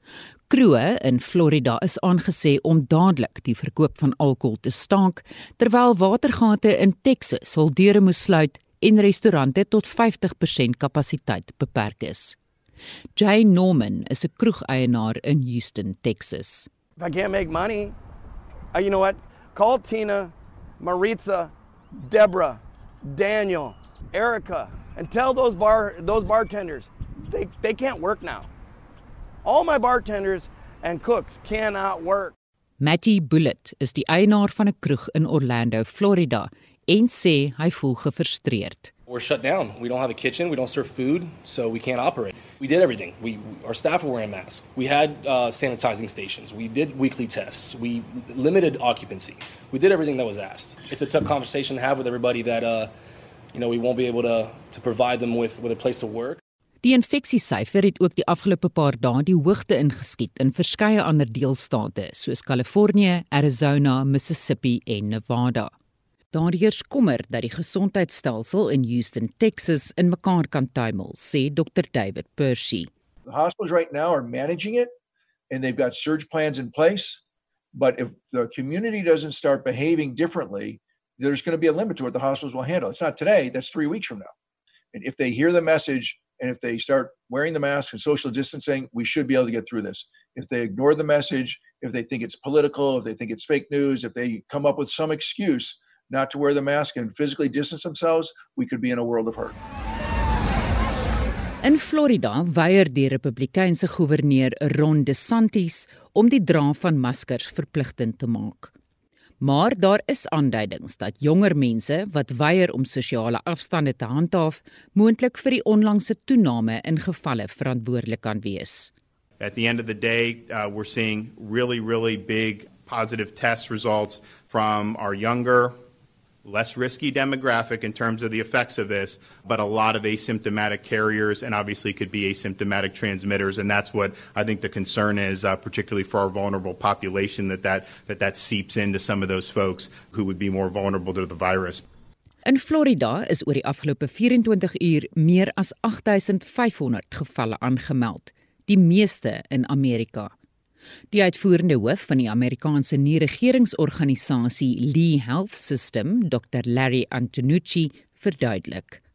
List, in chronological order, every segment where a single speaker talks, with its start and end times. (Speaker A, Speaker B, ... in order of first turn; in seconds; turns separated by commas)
Speaker A: 0.5-12.3, Speaker A: 13.1-16.7, Speaker B: 17.0-17.9, Speaker B: 18.7-21.5, Speaker B: 22.0-22.6, Speaker B: 23.1-28.5, Speaker B: 29.4-32.3, Speaker A: 32.8-38.9, Speaker C: 39.1-52.9, Speaker C: 53.5-56.4, Speaker A: 56.8-65.7, Speaker A: 66.3-72.9, Speaker D: 73.2-74.9, Speaker D: 75.5-77.2, Speaker D: 77.7-84.3, Speaker D: 84.9-99.5, Speaker A: 101.6-108.7, Speaker A: 109.4-118.9, Speaker E: 119.4-125.8, Speaker E: 126.4-141.8, Speaker A: 142.4-150.3, Speaker A: 151.1-159.0